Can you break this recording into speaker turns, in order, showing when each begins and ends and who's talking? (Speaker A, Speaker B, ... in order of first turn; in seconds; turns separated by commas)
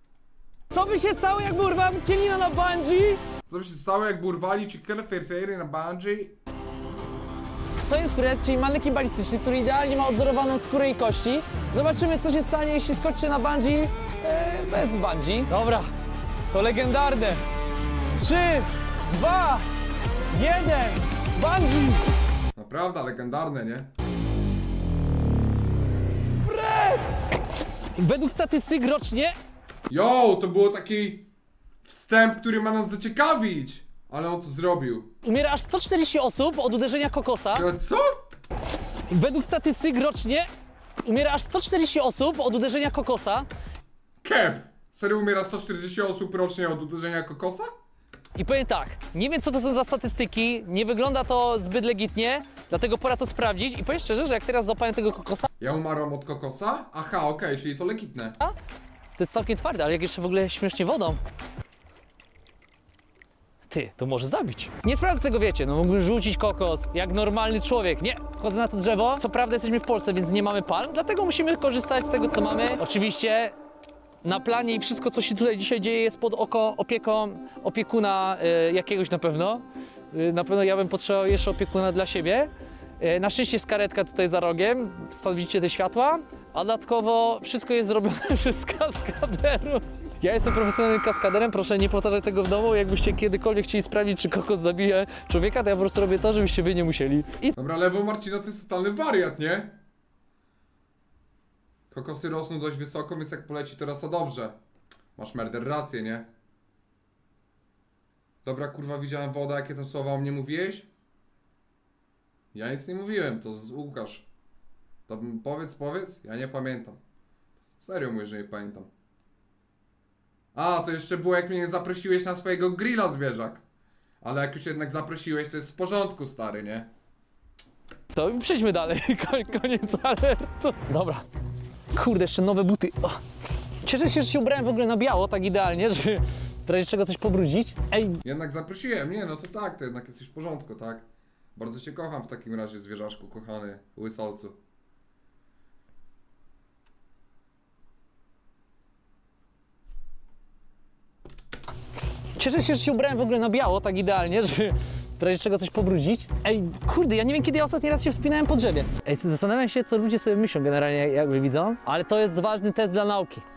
Speaker A: 0.7-3.2, Speaker B: 3.5-6.3, Speaker A: 7.9-15.9, Speaker A: 16.5-17.4, Speaker A: 18.1-19.6, Speaker A: 20.3-22.0, Speaker B: 22.5-23.9, Speaker A: 26.4-27.1, Speaker A: 27.9-29.3, Speaker B: 29.9-31.3, Speaker B: 31.8-35.1, Speaker A: 35.2-37.7, Speaker B: 37.5-38.1, Speaker A: 39.1-40.5, Speaker A: 41.0-43.5, Speaker B: 44.2-47.7, Speaker A: 48.4-55.5, Speaker B: 55.6-58.4, Speaker A: 59.2-61.2, Speaker A: 63.7-73.5, Speaker A: 74.2-97.5, Speaker B: 97.5-99.8, Speaker B: 101.9-104.5, Speaker B: 105.2-106.3, Speaker B: 108.4-110.9, Speaker B: 112.5-114.3, Speaker B: 115.1-117.0, Speaker B: 117.8-118.9, Speaker B: 120.5-123.6, Speaker B: 124.2-126.9, Speaker A: 128.1-131.2, Speaker A: 131.9-133.2, Speaker A: 133.8-138.2, Speaker B: 138.2-144.6, Speaker A: 152.3-163.4